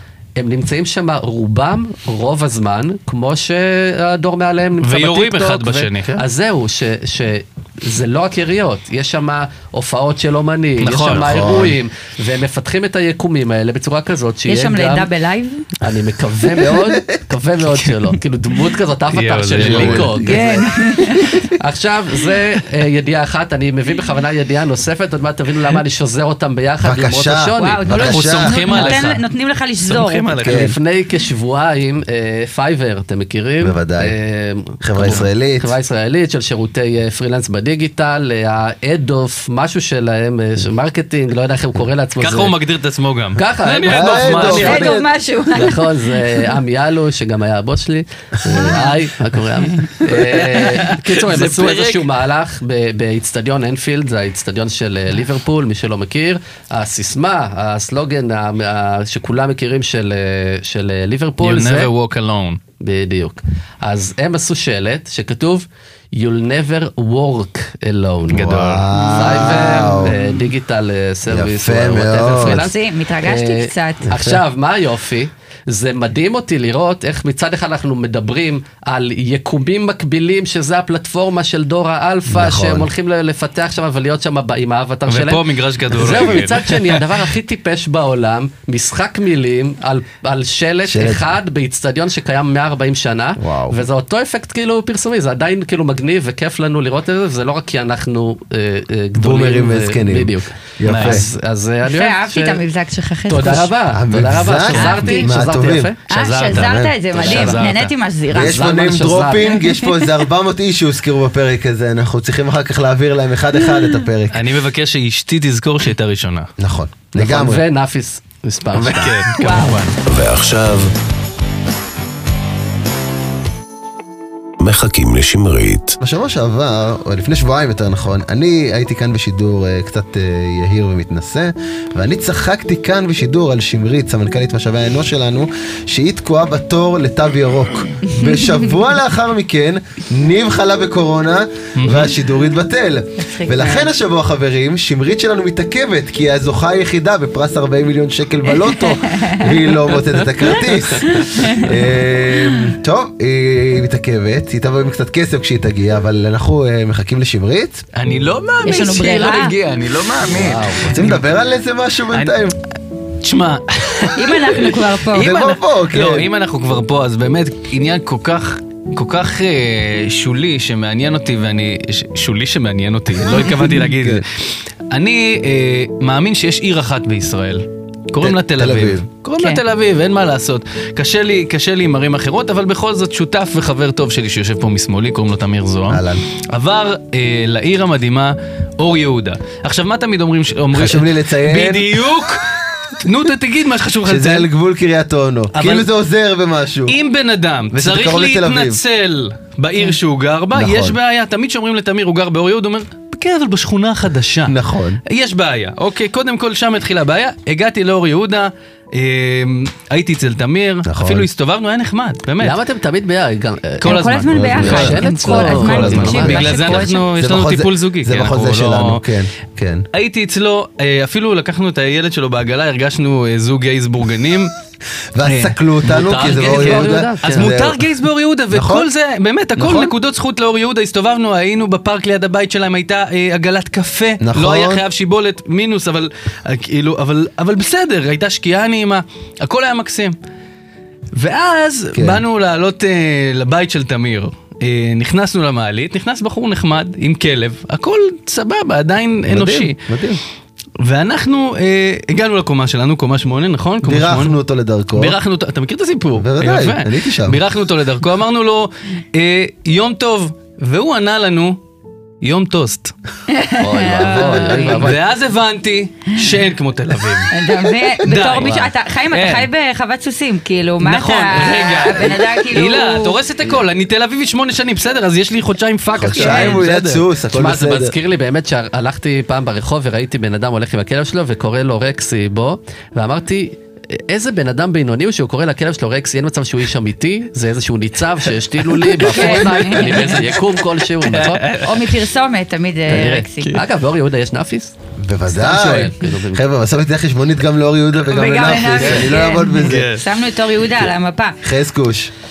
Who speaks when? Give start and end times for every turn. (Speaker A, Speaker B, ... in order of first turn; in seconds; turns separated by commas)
Speaker A: 0.4-15.1, Speaker B: 4.8-6.2, Speaker B: 10.8-11.5, Speaker C: 11.1-11.8, Speaker D: 14.5-15.7, Speaker A: 15.8-20.5, Speaker C: 16.6-17.2, Speaker B: 19.1-20.1, Speaker C: 19.6-21.2, Speaker D: 20.2-21.4, Speaker A: 21.2-28.0, Speaker C: 26.8-28.6, Speaker D: 27.6-30.4, Speaker B: 28.0-29.2, Speaker B: 29.8-30.7, Speaker C: 30.4-30.8, Speaker A: 30.4-42.6, Speaker C: 33.6-34.1, Speaker C: 34.8-35.7, Speaker B: 42.2-44.9, Speaker A: 43.4-44.9, Speaker C: 43.9-45.1, Speaker D: 44.5-46.2, Speaker A: 45.5-61.9, Speaker B: 50.0-52.0, Speaker B: 61.4-62.6, Speaker A: 62.8-68.5, Speaker B: 68.3-68.9, Speaker C: 68.3-70.2, Speaker D: 69.0-69.7, Speaker A: 69.1-102.6, Speaker C: 71.3-72.7, Speaker D: 72.5-74.1, Speaker C: 74.1-74.4, Speaker C: 82.3-82.9, Speaker B: 85.1-87.0, Speaker C: 90.9-91.3, Speaker C: 93.4-93.8, Speaker C: 99.2-101.2, Speaker B: 100.9-101.2, Speaker D: 101.8-103.7, Speaker A: 103.3-106.5, Speaker C: 103.9-105.9, Speaker D: 104.7-105.4, Speaker B: 104.7-105.1, Speaker D: 106.1-108.6, Speaker B: 106.1-107.9, Speaker C: 106.5-106.9, Speaker A: 107.1-107.7, Speaker C: 108.3-114.4, Speaker A: 108.3-109.6, Speaker D: 109.7-110.1, Speaker B: 114.3-116.5, Speaker C: 116.6-117.6, Speaker A: 117.1-119.5, Speaker C: 118.7-119.2, Speaker B: 118.8-120.0, Speaker D: 119.4-119.8, Speaker E: 120.0-120.9, Speaker E: 124.6-126.0, Speaker C: 126.0-157.8, Speaker D: 138.2-138.5, Speaker B: 141.8-142.1, Speaker D: 143.3-143.9, Speaker D: 148.6-149.7, Speaker D: 151.1-151.8, Speaker B: 157.9-161.2, Speaker D: 158.6-159.5, Speaker A: 160.3-161.1, Speaker C: 160.8-162.6, Speaker B: 162.1-162.4, Speaker B: 163.2-194.5, Speaker D: 164.2-165.3, Speaker C: 165.2-166.3, Speaker C: 178.2-179.1, Speaker C: 185.9-186.2, Speaker C: 190.7-192.0, Speaker C: 194.1-197.0, Speaker B: 195.5-195.9, Speaker B: 196.9-212.6, Speaker C: 197.7-198.8, Speaker C: 200.5-201.0, Speaker C: 204.5-205.0, Speaker C: 210.8-211.3, Speaker A: 212.4-216.5, Speaker D: 213.8-217.1, Speaker B: 213.8-219.0, Speaker C: 214.3-219.9, Speaker B: 219.9-224.5, Speaker C: 225.2-227.8, Speaker B: 225.2-225.6, Speaker A: 225.9-227.6, Speaker B: 226.4-240.2, Speaker C: 228.5-228.9, Speaker C: 229.6-229.9, Speaker C: 234.2-234.8, Speaker B: 241.1-249.8, Speaker C: 241.9-242.2, Speaker C: 249.3-250.2, Speaker B: 250.8-254.4, Speaker C: 253.8-255.2, Speaker B: 254.9-261.6, Speaker C: 256.2-257.4, Speaker B: 262.2-262.9, Speaker D: 263.3-264.9, Speaker A: 263.6-265.0, Speaker B: 264.4-267.3, Speaker D: 267.3-273.1, Speaker B: 268.1-269.5, Speaker B: 270.8-277.0, Speaker C: 275.9-277.9, Speaker D: 276.1-276.6, Speaker A: 277.3-291.5, Speaker B: 288.8-290.2, Speaker D: 289.1-290.2, Speaker B: 291.0-292.0, Speaker D: 291.6-293.5, Speaker B: 292.9-293.6, Speaker A: 293.0-294.8, Speaker C: 295.0-299.9, Speaker A: 295.3-296.4, Speaker D: 298.0-301.4, Speaker B: 299.5-300.1, Speaker C: 301.4-302.1